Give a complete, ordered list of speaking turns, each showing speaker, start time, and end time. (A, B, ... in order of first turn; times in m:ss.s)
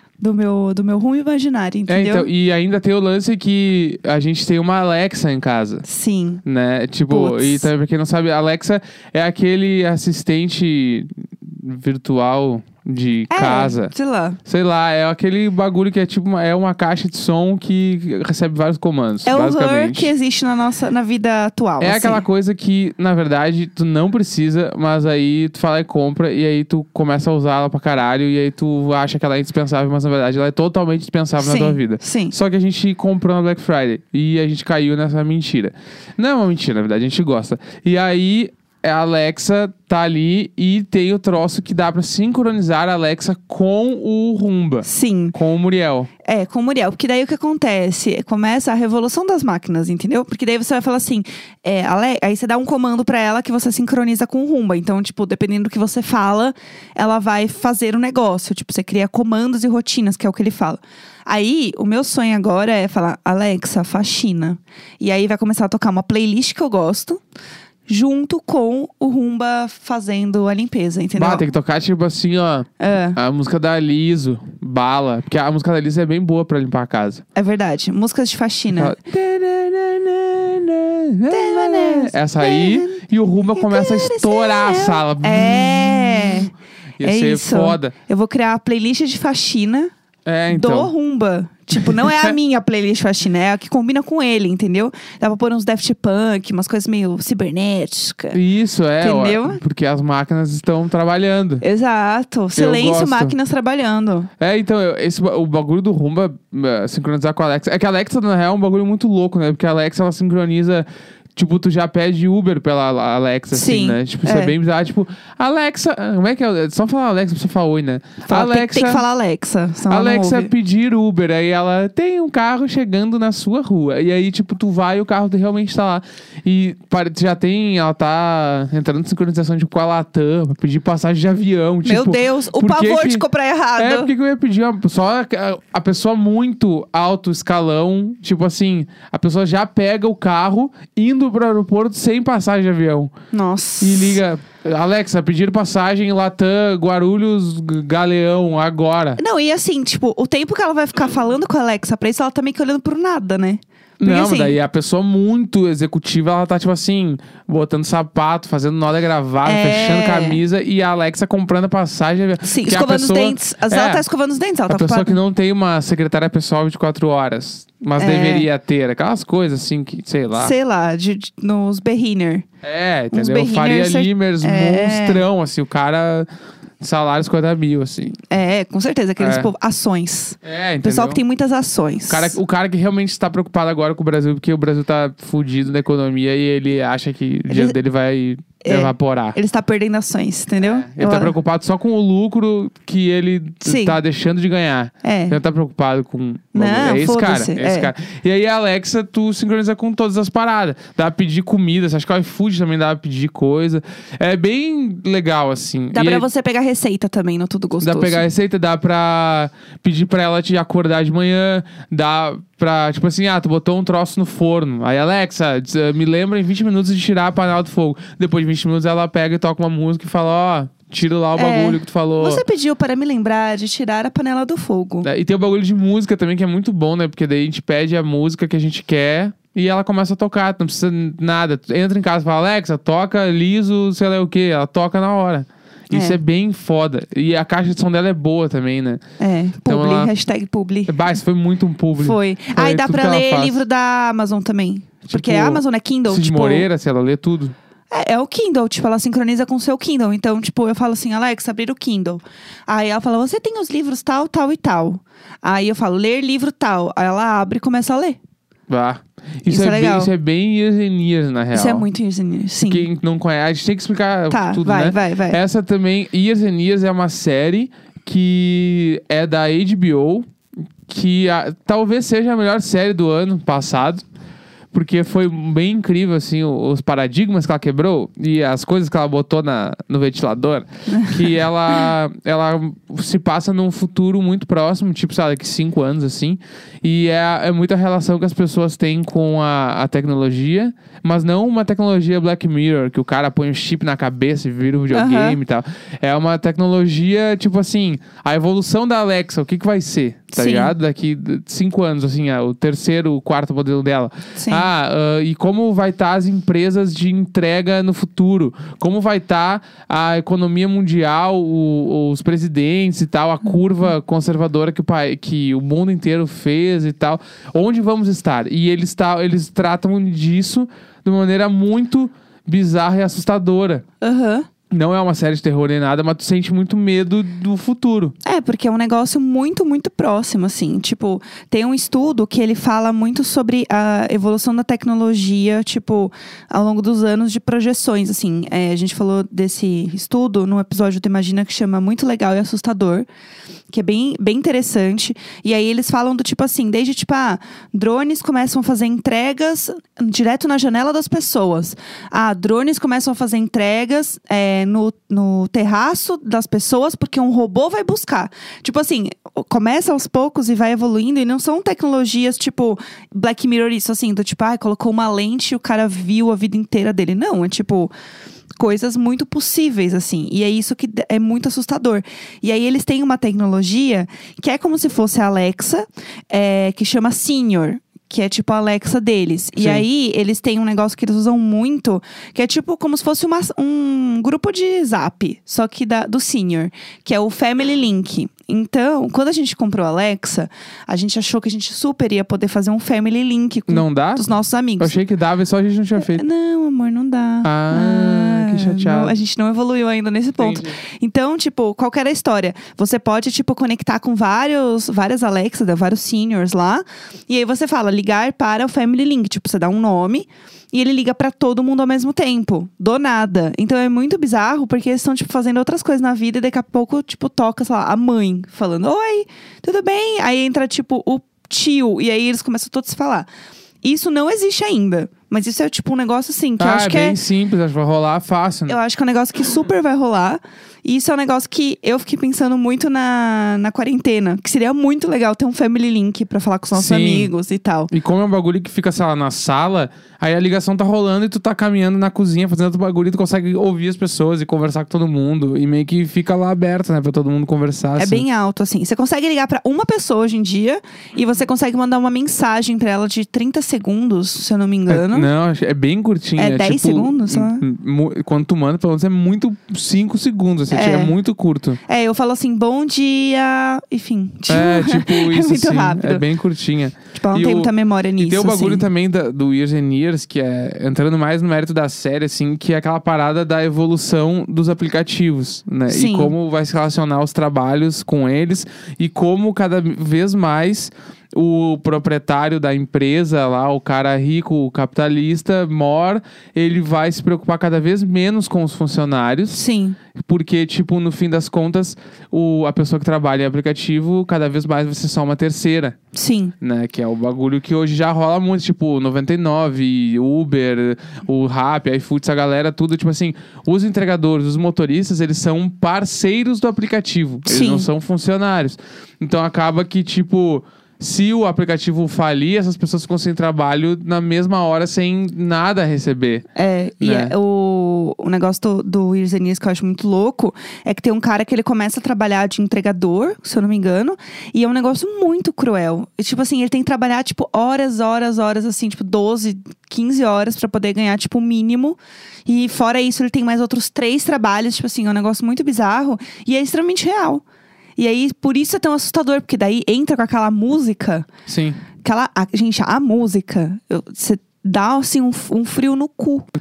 0:00.2-0:02.3 A
0:01.9-0:05.8 B
0:05.9-0:06.4 A
0:06.4-0:13.9 B
0:07.1-0:07.7 A
0:13.3-0:14.4 A
0:14.4-0:20.1 B
0:19.2-0:22.2 A
0:21.8-0:46.1 B
0:31.4-0:32.4 A
0:44.8-0:45.4 A
0:46.2-1:07.2 A
1:07.9-1:11.5 A
1:11.2-1:17.2 B
1:12.8-1:13.2 A
1:17.4-1:18.9 A
1:18.7-1:26.5 B
1:21.3-1:23.0 A
1:23.6-1:29.9 A
1:27.0-1:27.9 B
1:30.2-1:30.9 B
1:30.5-1:38.4 A
1:31.8-1:32.3 B
1:38.3-1:41.6 B
1:39.0-1:39.6 A
1:41.6-1:44.3 A
1:42.6-1:43.4 B
1:44.4-1:59.0 B
1:53.5-1:54.6 A
1:58.2-2:00.5 A
1:59.9-2:13.2 B
2:11.8-2:14.1 A
2:13.8-2:23.1 B
2:23.3-2:24.2 A
2:23.8-2:29.2 B
2:29.2-2:34.6 A
2:34.0-2:44.0 B
2:39.4-2:40.4 A
2:42.4-2:45.2 A
2:44.7-2:50.5 B
2:48.0-2:48.5 A
2:50.3-2:52.4 A
2:52.6-2:56.3 B
2:53.1-2:55.2 A
2:56.8-2:58.2 B
2:58.3-3:02.4 A
2:59.2-2:59.5 B
3:00.4-3:01.2 B
3:02.1-3:09.4 B
3:07.5-3:07.8 A
3:08.6-3:11.3 A
3:10.6-3:26.2 B
3:13.6-3:14.0 A
3:15.0-3:15.4 A
3:16.5-3:17.9 A
3:25.9-3:28.2 A
3:27.8-3:42.4 B
3:41.4-3:45.1 A
3:45.0-3:59.0 B
3:55.9-3:56.2 A
3:59.2-4:01.1 A
3:59.7-4:00.1 B
4:00.9-4:03.6 B
4:02.0-4:06.7 A
4:05.1-4:07.5 B
4:07.9-4:18.2 A
4:18.7-4:21.9 B
4:19.4-4:20.1 A
4:21.5-4:22.9 A
4:22.6-4:30.3 B
4:24.3-4:25.4 A
4:30.9-4:34.0 B
4:34.7-5:23.8 B
4:40.9-4:41.2 A
4:54.9-4:55.4 A
5:00.3-5:00.7 A
5:04.4-5:04.7 A
5:24.0-5:24.5 A
5:24.7-5:28.1 B
5:28.2-5:43.1 A
5:43.7-6:07.9 A
6:08.6-6:35.0 A
6:19.6-6:19.8 B
6:33.7-6:34.3 B
6:34.8-6:36.2 B
6:36.0-7:03.3 A
6:37.4-6:39.2 B
6:40.4-6:40.8 B
7:03.8-7:07.2 A
7:06.6-7:08.8 B
7:08.7-7:17.9 A
7:16.7-7:17.3 B
7:17.9-7:28.2 B
7:28.0-7:35.3 A
7:34.9-7:41.8 B
7:36.4-7:37.6 A
7:40.7-7:41.1 A
7:41.9-7:46.2 A
7:44.5-8:09.6 B
7:47.1-7:48.8 A
7:55.9-7:56.3 A
8:09.5-8:10.0 A
8:10.2-8:16.0 B
8:16.1-8:16.6 A
8:16.6-8:36.4 B
8:27.5-8:27.9 A
8:36.6-8:57.4 A
8:37.0-8:37.4 B
8:58.0-9:01.3 A
9:01.5-9:01.8 B
9:02.0-9:06.5 A